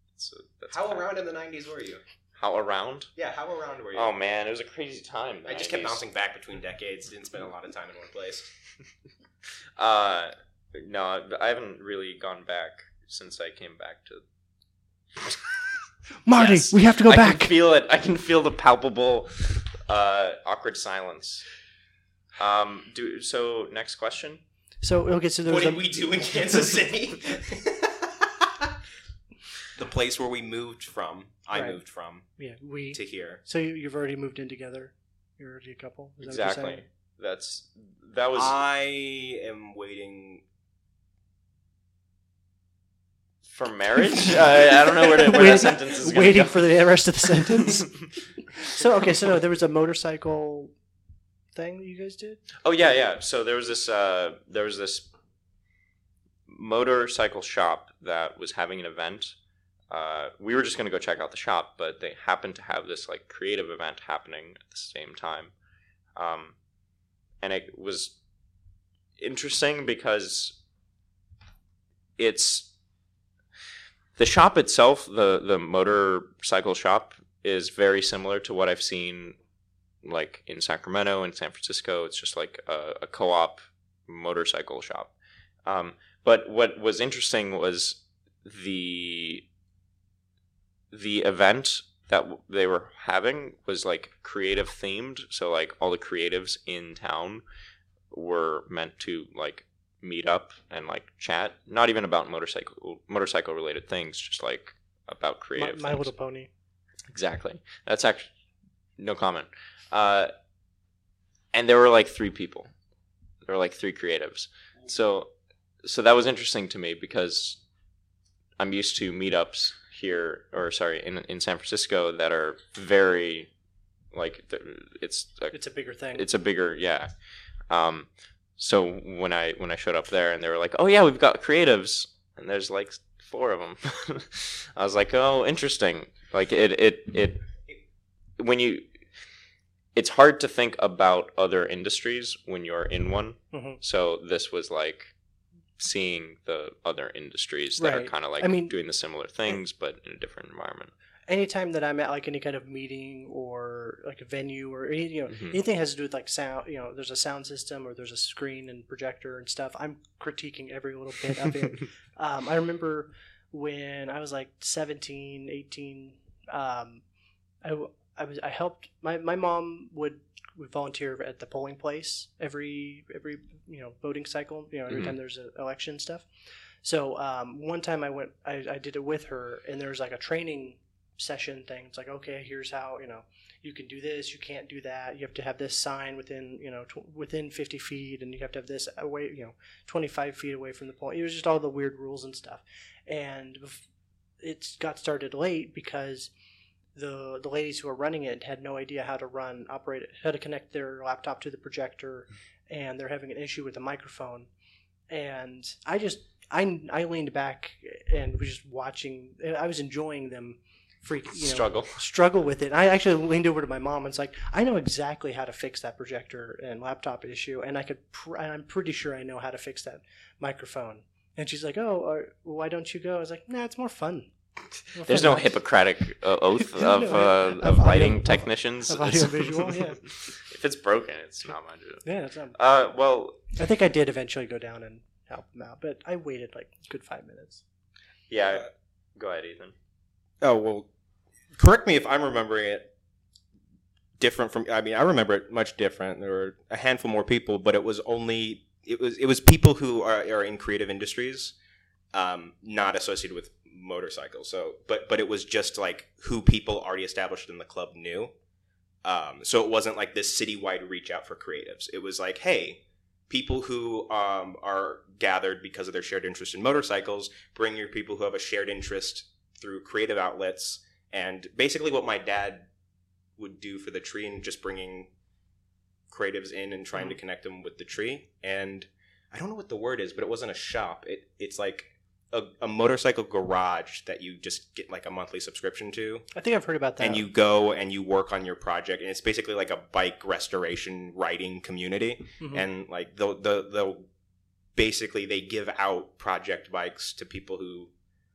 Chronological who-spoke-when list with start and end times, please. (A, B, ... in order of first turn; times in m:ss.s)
0:00.2-0:01.1 A
0:00.7-0:02.0 B
0:02.4-0:03.1 A
0:03.2-0:04.1 B
0:03.9-0:06.0 A
0:05.4-0:08.5 B
0:09.8-0:14.2 A
0:15.2-0:15.6 A
0:16.2-0:17.5 C
0:16.3-0:21.5 A
0:22.4-0:24.4 A
0:24.8-0:25.9 C
0:25.5-0:28.7 B
0:29.7-0:32.3 B
0:31.5-0:31.8 C
0:32.4-0:36.8 C
0:32.9-0:33.4 B
0:36.2-0:38.6 A
0:38.3-0:40.4 B
0:43.4-0:46.6 A
0:45.0-0:47.9 C
0:47.2-0:48.0 A
0:48.6-0:50.7 C
0:51.5-0:52.4 C
0:52.6-0:55.1 A
0:56.5-0:59.3 A
0:59.9-1:05.5 A
1:06.2-1:06.5 A
1:07.4-1:08.1 A
1:09.2-1:10.6 A
1:12.2-1:12.7 A
1:14.2-1:19.4 A
1:20.0-1:25.1 A
1:25.6-1:29.4 A
1:30.9-1:37.4 A
1:38.1-1:46.1 A
1:45.6-1:46.5 C
1:47.1-1:48.3 A
1:49.0-1:50.3 A
1:51.5-1:52.7 A
1:53.4-1:55.3 A
1:55.8-1:57.6 A
1:58.6-2:03.5 A
2:04.1-2:05.6 A
2:05.5-2:06.2 C
2:06.1-2:07.1 A
2:07.7-2:17.4 A
2:18.4-2:18.8 A
2:19.9-2:25.1 A
2:23.5-2:23.8 C
2:25.8-2:30.9 A
2:27.8-2:28.7 C
2:31.3-2:47.0 C
2:35.3-2:35.6 A
2:47.6-2:56.3 C
2:54.9-2:55.1 A
2:56.8-3:13.8 C
3:14.4-3:16.3 C
3:17.0-3:24.5 C
3:25.1-3:44.3 C
3:31.4-3:32.0 A
3:44.9-3:45.5 C
3:45.0-3:53.4 A
3:46.6-3:50.0 C
3:52.0-3:52.6 C
3:53.5-3:57.6 C
3:58.3-3:59.7 A
4:00.4-4:00.9 B
4:01.5-4:02.9 B
4:04.2-4:11.5 B
4:12.1-4:18.3 B
4:19.0-4:32.7 B
4:33.4-4:35.1 B
4:36.1-4:46.3 B
4:46.3-4:47.2 C
4:47.0-4:54.0 B
4:52.4-4:52.6 C
4:54.8-4:57.9 B